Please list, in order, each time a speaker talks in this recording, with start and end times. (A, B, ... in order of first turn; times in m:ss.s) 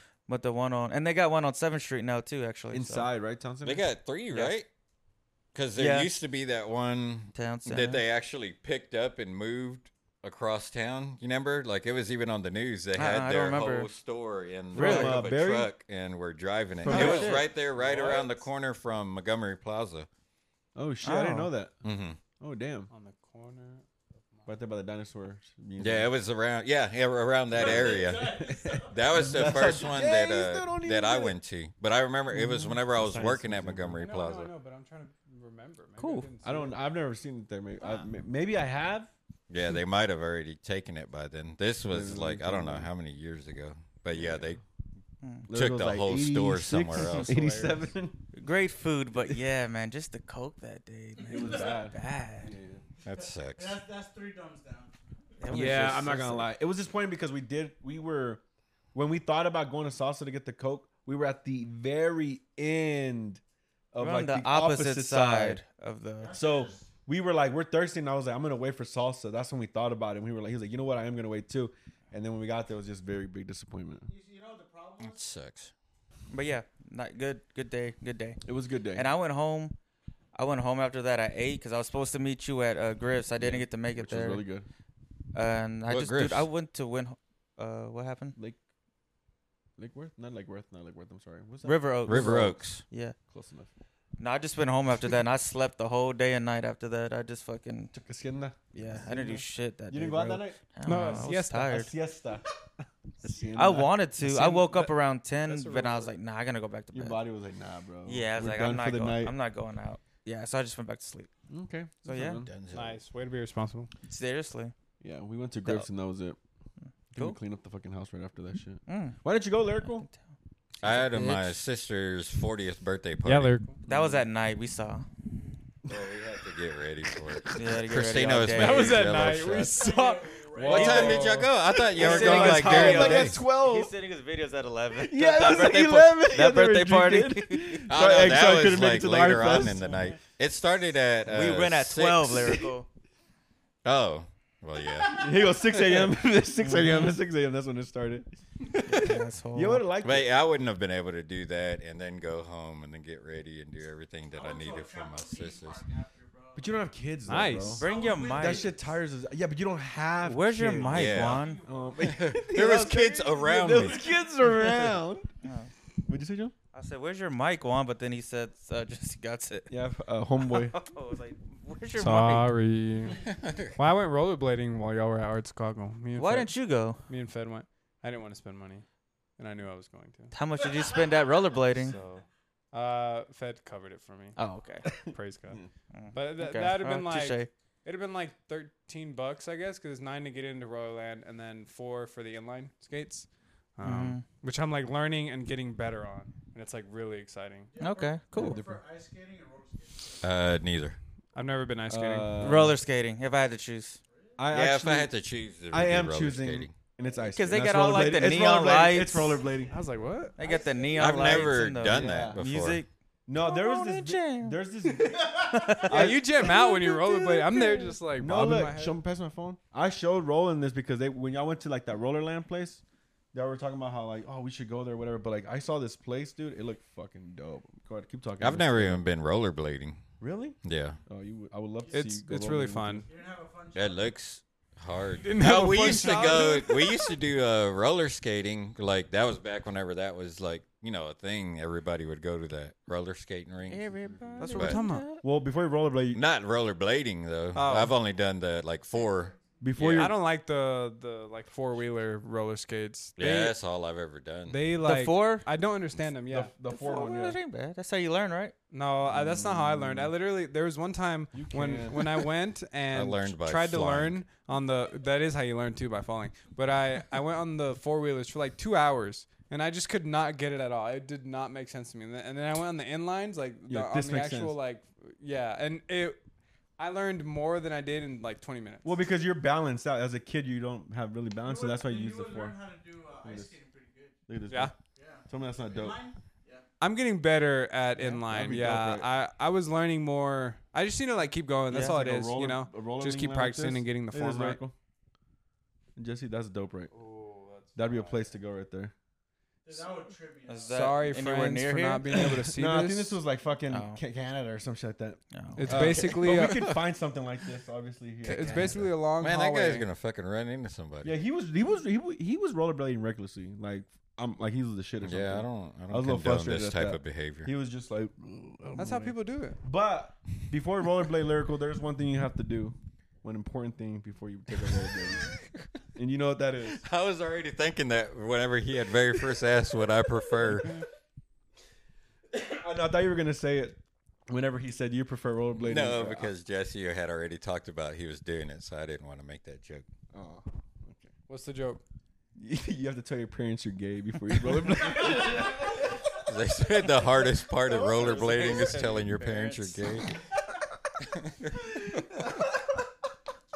0:00.3-0:03.1 A
0:02.7-0:03.8 B
0:03.6-0:04.7 C
0:05.5-0:20.1 C
0:05.8-0:06.1 A
0:07.3-0:08.0 A
0:12.9-0:13.9 A
0:14.7-0:15.7 B
0:14.7-0:15.2 A
0:16.8-0:17.4 B
0:16.8-0:17.5 A
0:16.9-0:18.4 D
0:20.7-0:21.7 B
0:21.0-0:21.5 A
0:21.8-0:22.2 C
0:22.4-0:22.9 B
0:22.9-0:24.5 D
0:24.4-0:26.1 B
0:25.8-0:34.5 C
0:27.5-0:29.8 E
0:27.6-0:31.4 B
0:32.3-0:34.0 B
0:34.0-0:36.8 D
0:36.0-0:36.3 A
0:36.4-0:39.1 B
0:39.5-0:44.6 C
0:41.9-0:42.9 B
0:44.1-0:44.5 B
0:45.2-0:45.5 A
0:45.4-0:48.2 B
0:45.5-0:47.4 C
0:47.2-0:47.8 D
0:48.3-0:52.5 A
0:49.2-0:49.4 B
0:51.2-0:51.7 E
0:51.3-0:52.8 B
0:53.0-0:53.8 C
0:53.1-0:54.9 E
0:55.4-0:56.5 A
0:55.5-0:58.4 B
0:58.9-1:03.4 B
1:03.9-1:05.6 B
1:04.0-1:06.3 A
1:06.2-1:06.9 E
1:06.3-1:14.1 B
1:14.0-1:15.2 E
1:15.0-1:15.7 C
1:16.3-1:18.4 A
1:18.4-1:19.1 B
1:18.9-1:19.8 A
1:20.3-1:24.4 A
1:23.4-1:24.6 B
1:25.3-1:28.4 A
1:25.9-1:26.5 C
1:29.8-1:32.6 B
1:31.6-1:33.2 A
1:32.0-1:32.8 C
1:33.3-1:33.7 B
1:34.2-1:37.9 A
1:37.9-1:40.6 B
1:38.7-1:41.9 A
1:40.8-1:41.8 D
1:41.6-1:42.4 B
1:43.2-1:44.0 B
1:43.6-1:47.2 A
1:44.2-1:46.1 D
1:46.9-1:49.3 B
1:48.0-1:51.3 A
1:51.5-1:52.5 B
1:52.0-1:52.4 A
1:52.4-1:53.0 C
1:52.7-1:53.9 D
1:54.0-1:54.7 A
1:55.0-1:56.4 B
1:57.1-2:00.0 B
1:58.9-1:59.2 A
1:59.8-2:00.2 A
2:00.8-2:03.6 C
2:01.1-2:01.5 D
2:03.2-2:03.8 D
2:03.8-2:05.1 A
2:03.9-2:04.1 B
2:05.9-2:09.8 C
2:07.5-2:09.3 A
2:08.5-2:11.4 D
2:09.6-2:11.3 E
2:10.5-2:13.9 B
2:10.6-2:13.4 C
2:10.7-2:11.2 A
2:11.9-2:17.9 A
2:14.9-2:20.0 B
2:17.9-2:22.6 C
2:21.2-2:22.9 A
2:22.3-2:22.7 B
2:23.8-2:25.2 C
2:25.0-2:28.3 B
2:26.6-2:27.2 A
2:28.8-2:29.8 A
2:29.5-2:30.3 B
2:30.0-2:35.8 C
2:34.3-2:36.8 E
2:36.6-2:45.3 B
2:37.3-2:37.8 D
2:37.8-2:38.7 A
2:37.8-2:38.9 E
2:40.2-2:41.6 A
2:40.9-2:44.1 C
2:41.0-2:42.1 E
2:45.4-2:45.7 A
2:46.0-2:46.5 B
2:46.7-2:49.7 A
2:49.7-2:50.8 B
2:50.4-2:52.5 A
2:52.0-2:53.2 D
2:53.2-2:53.8 C
2:53.8-2:56.5 D
2:56.1-2:57.0 A
2:57.1-2:58.8 D
2:59.4-3:00.3 D
3:00.3-3:02.0 A
3:00.6-3:01.3 E
3:01.7-3:04.4 D
3:04.4-3:04.9 A
3:04.8-3:05.7 B
3:04.9-3:05.6 D
3:05.9-3:07.5 A
3:06.1-3:17.7 D
3:13.8-3:14.2 A
3:17.7-3:20.3 E
3:17.8-3:18.6 A
3:18.3-3:18.8 B
3:20.2-3:21.0 C
3:21.3-3:22.6 D
3:21.9-3:22.8 B
3:22.4-3:24.0 A
3:24.1-3:24.4 E
3:24.4-3:25.1 B
3:24.5-3:26.7 C
3:25.7-3:29.8 B
3:27.3-3:29.4 A
3:29.7-3:30.4 D
3:30.4-3:34.6 A
3:30.4-3:31.5 E
3:31.0-3:32.8 C
3:31.9-3:32.4 B
3:33.3-3:42.8 B
3:35.0-3:35.8 E
3:35.5-3:36.6 A
3:35.9-3:39.0 D
3:43.3-3:49.0 B
3:48.4-3:50.0 C
3:50.2-3:53.0 B
3:50.6-3:51.0 C
3:51.8-3:52.1 E
3:51.9-3:53.0 D
3:53.0-3:54.1 E
3:53.7-4:03.9 C
3:55.2-3:57.1 D
4:03.7-4:05.2 A
4:04.1-4:04.5 B
4:04.4-4:05.0 D
4:04.5-4:04.8 C
4:05.2-4:06.2 B
4:06.1-4:10.1 C
4:07.5-4:08.0 D
4:09.0-4:09.3 E
4:09.6-4:10.1 B
4:09.9-4:13.6 D
4:13.2-4:14.6 C
4:14.5-4:16.5 D
4:14.8-4:15.5 A
4:16.3-4:17.4 B
4:16.7-4:18.5 A
4:18.7-4:36.2 D
4:19.0-4:20.1 B
4:21.3-4:22.3 B
4:22.9-4:24.2 C
4:33.7-4:34.6 B
4:36.8-4:39.0 D
4:38.8-4:42.5 B
4:41.4-4:44.2 E
4:43.2-4:43.5 B
4:44.3-4:44.7 B
4:44.5-4:44.7 D
4:44.9-4:46.6 E
4:45.3-4:46.0 B
4:46.8-4:54.6 D
4:48.1-4:49.1 B
4:51.7-4:54.7 B
4:51.7-4:52.0 A
4:56.0-4:56.9 B
4:56.9-4:58.3 D
4:57.8-4:58.9 B
4:59.6-5:00.9 E
5:00.5-5:02.3 A
5:00.7-5:03.2 D
5:02.1-5:08.9 B
5:03.7-5:04.0 A
5:05.3-5:06.0 A
5:05.6-5:06.7 D
5:05.8-5:06.7 C
5:08.2-5:09.8 D
5:08.4-5:08.7 A
5:09.2-5:11.2 C
5:11.0-5:25.3 B
5:15.0-5:17.5 C
5:18.8-5:19.6 D
5:25.9-5:26.8 B
5:26.7-5:30.8 C
5:32.3-5:33.8 B
5:34.3-5:36.3 B
5:35.6-5:39.9 C
5:40.1-5:41.1 B
5:41.3-5:41.8 D
5:42.4-5:46.1 B
5:46.1-5:50.2 C
5:47.7-5:48.8 B
5:47.7-5:49.8 D
5:51.0-5:51.5 C
5:51.5-5:52.9 B